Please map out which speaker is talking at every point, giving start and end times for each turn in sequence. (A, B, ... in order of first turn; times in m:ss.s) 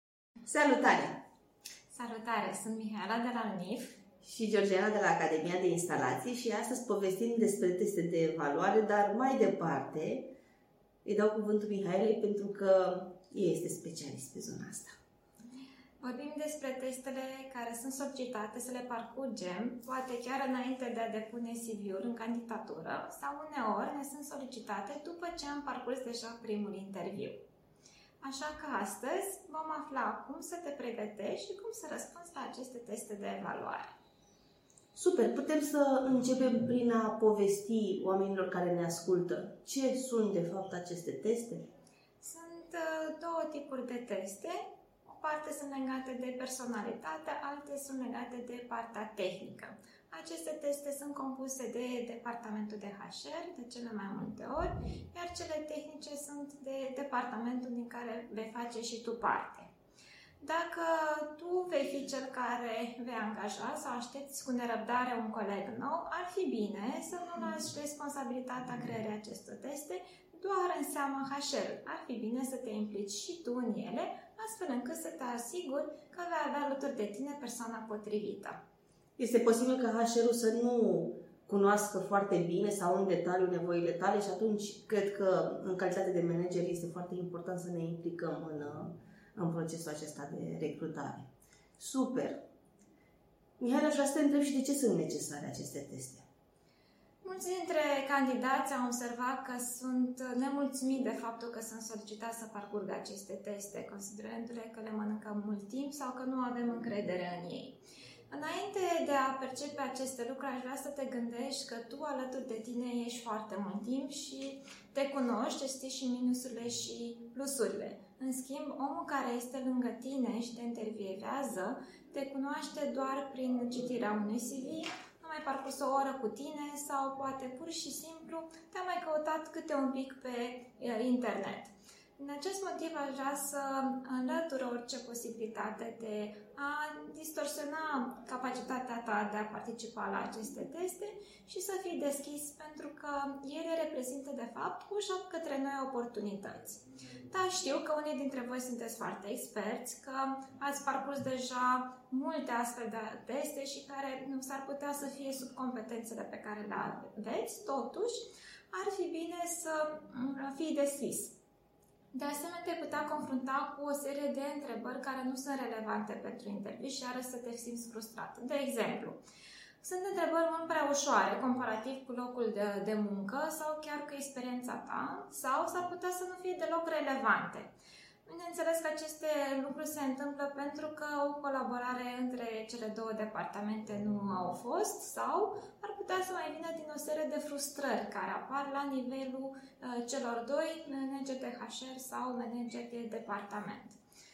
0:00.4-0:01.2 A
0:01.9-0:04.0 B
0:04.2-0:10.3 A
0:11.0-0:14.9 A
0:16.0-0:27.4 B
0:28.2-0:33.9 B
0:34.9-0:41.6 A
0:42.2-0:59.7 B
1:00.4-1:18.6 B
1:19.2-1:31.3 A
1:31.8-1:32.4 A
1:33.6-1:36.2 A
1:37.2-1:47.8 B
1:48.3-2:38.2 B
2:38.7-2:41.3 B
2:42.1-2:49.2 B
2:49.8-2:57.7 B
2:58.2-3:14.0 B